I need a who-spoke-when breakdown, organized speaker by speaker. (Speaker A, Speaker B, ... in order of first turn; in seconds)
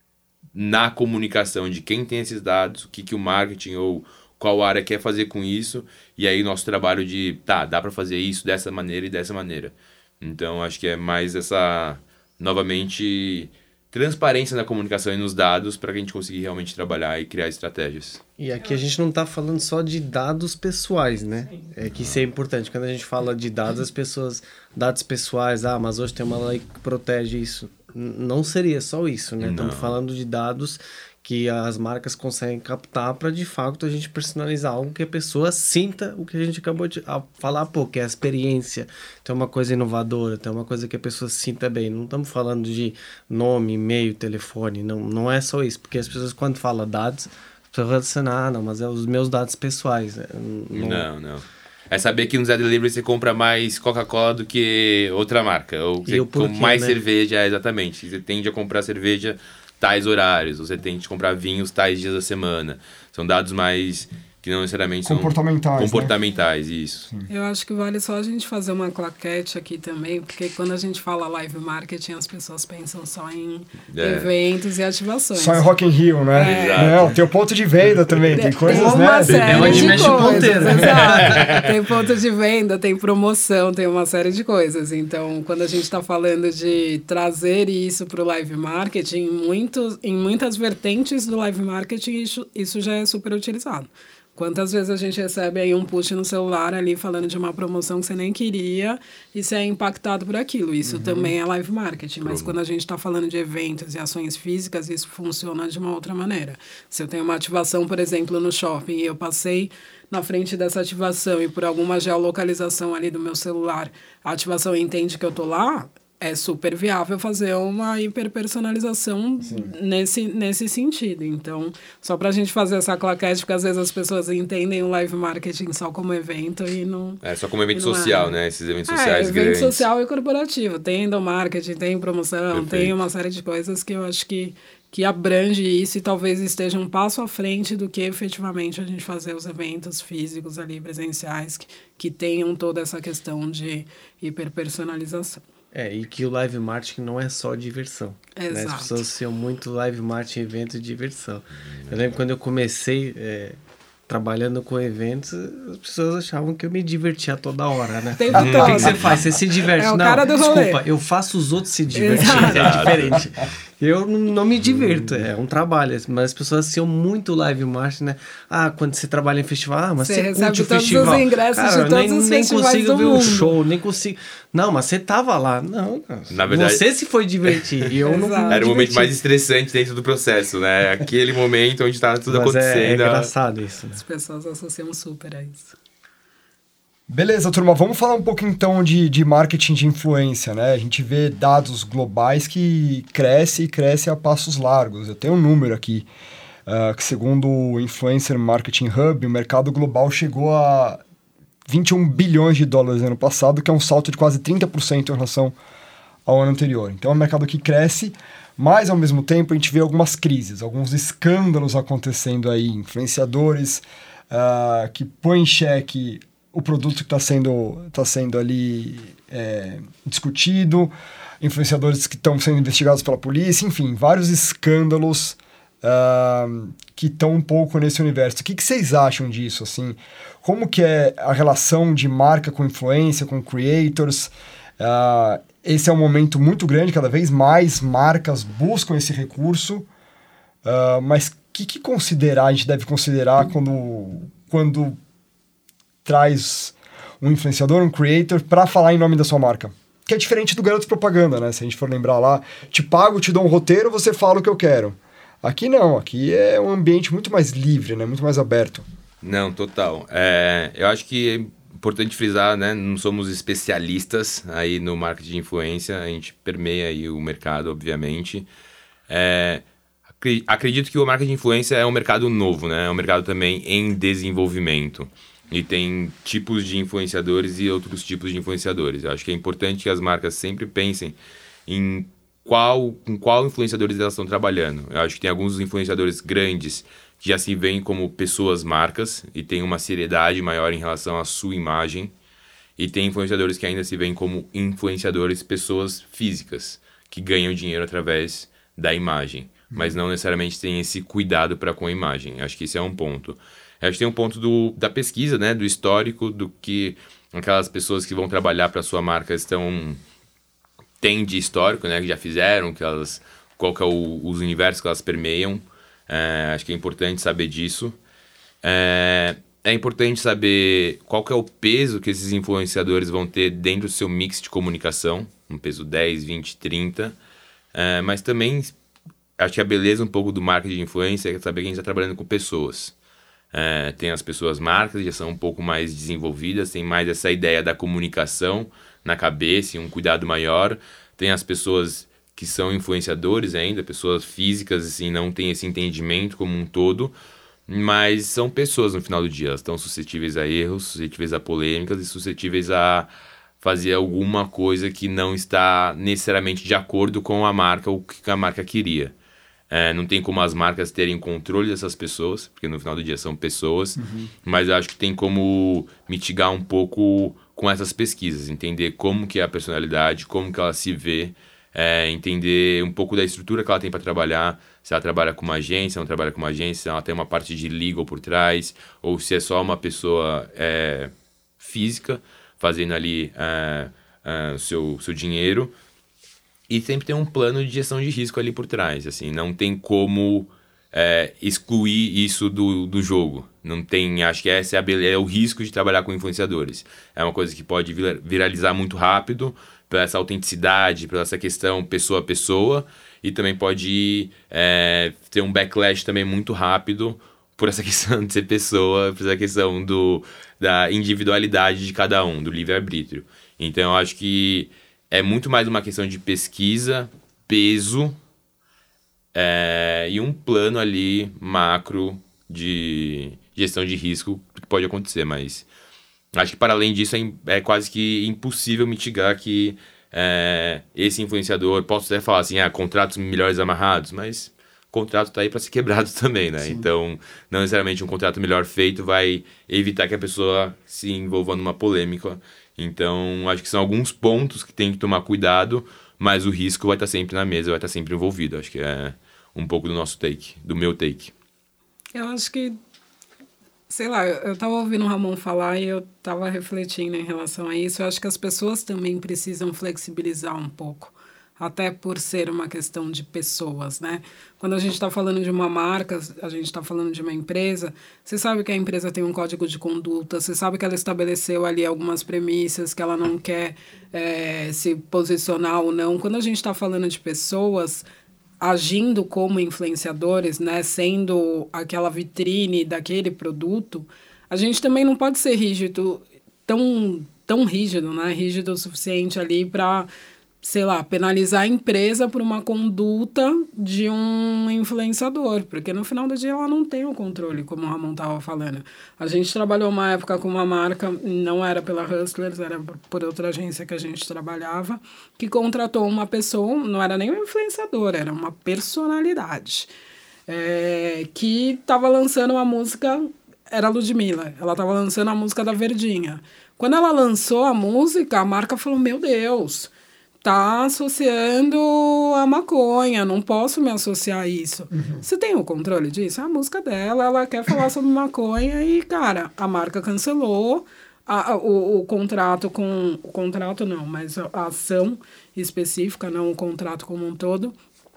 Speaker A: 0.6-18.2, 29.4-30.0, 50.7-67.1, 73.9-74.3, 76.3-77.2, 79.3-81.7, 102.2-102.6, 127.2-129.9, 132.5-132.9, 158.3-159.3, 162.3-163.1, 176.3-176.8, 178.5-183.3, 259.2-268.5, 269.1-269.6, 270.2-281.2, 281.7-292.1, 292.8-310.0, 311.0-318.0, 318.6-327.2, 327.7-328.8, 329.4-332.9, 333.5-347.1, 347.7-353.1, 353.6-359.1, 359.7-385.7, 386.7-418.2, 419.3-425.7, 426.3-451.3
Speaker B: 18.4-51.1, 56.1-57.0, 78.7-81.3, 145.7-179.1, 182.3-184.0
Speaker C: 65.0-66.1, 75.3-80.7, 100.8-101.3, 119.4-119.7, 187.1-196.1, 196.7-201.0, 201.7-205.6, 206.3-239.9, 240.7-245.0, 246.1-258.9, 299.7-300.0, 364.0-364.3, 524.9-525.2
Speaker D: 67.3-75.7, 76.3-77.0, 78.3-127.2, 127.7-128.3, 128.9-145.4, 148.4-149.0, 158.2-159.2, 159.8-160.8, 161.9-162.9, 170.0-173.5, 178.1-178.9, 184.0-185.8, 452.1-452.8, 453.9-478.1, 478.6-490.1, 490.6-509.9, 510.5-519.9, 520.4-537.8